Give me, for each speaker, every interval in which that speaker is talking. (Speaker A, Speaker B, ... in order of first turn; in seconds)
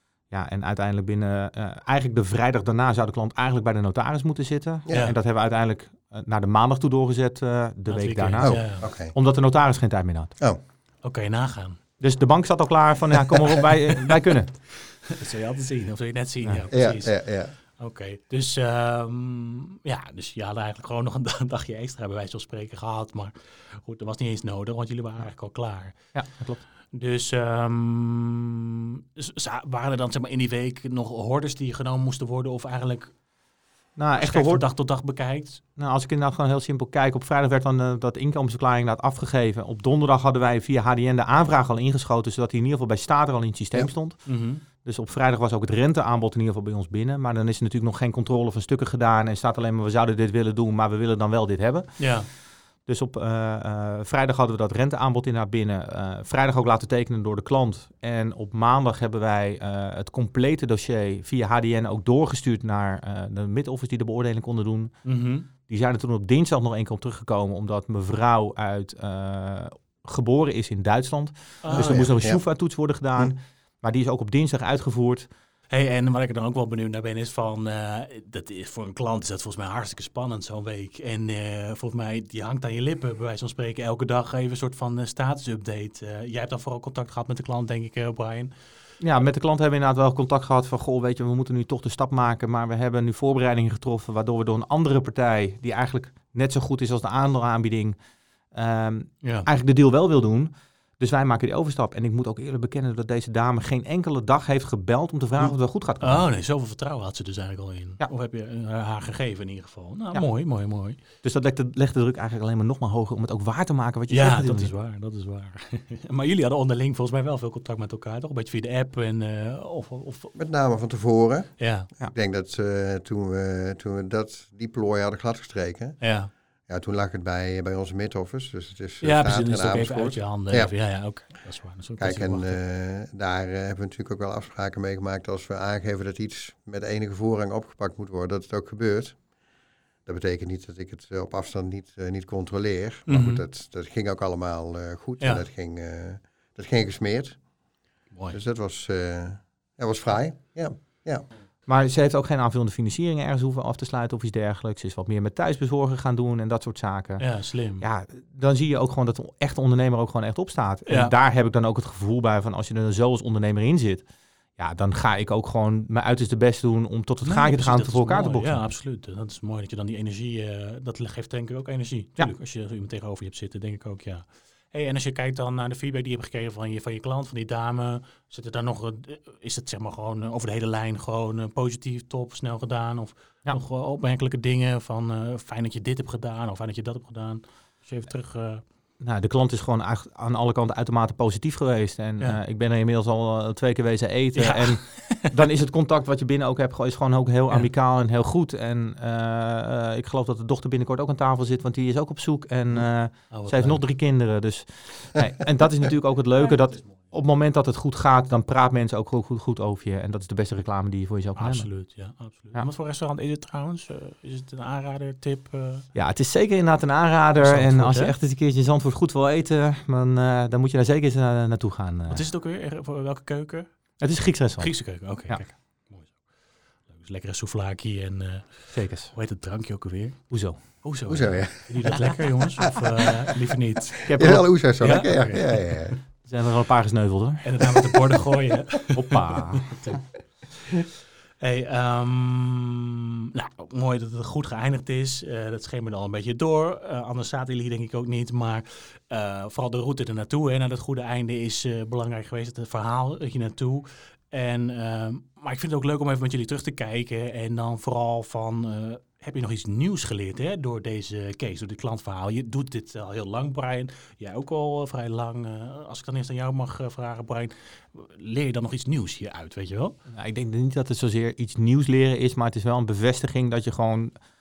Speaker A: 0.3-10.3, 12.0-14.8, 26.1-26.6, 34.0-34.7, 35.8-52.1, 52.9-65.0, 65.6-75.3, 89.0-98.0, 98.5-106.2, 111.2-114.7, 151.7-164.1, 164.6-168.7, 189.0-211.9, 215.9-222.2, 224.0-225.5, 228.7-229.1, 230.3-230.8, 234.0-235.0, 236.2-237.8, 238.9-239.8, 270.1-274.1
Speaker B: 4.9-5.2, 7.9-8.8, 11.0-11.8, 15.0-26.1, 26.8-33.1, 34.1-35.6, 44.2-44.6, 52.0-52.3, 65.0-65.5, 71.6-72.1, 75.7-88.5, 99.2-99.5, 105.4-111.0, 114.1-120.3, 121.6-121.9, 126.0-126.3, 129.0-132.6, 143.1-143.4, 145.2-145.4, 148.1-148.4, 157.2-157.8, 160.9-161.1, 167.2-188.6, 194.3-195.3, 203.3-203.8, 211.3-215.9, 217.4-218.1, 222.1-224.0, 224.6-234.1, 234.8-235.8, 237.4-240.0, 241.4-269.9
Speaker C: 8.4-9.1, 16.7-17.6, 71.7-72.4, 120.3-126.1, 126.7-130.7, 132.0-139.2, 140.1-147.4, 148.3-151.2, 231.1-232.1, 234.2-236.0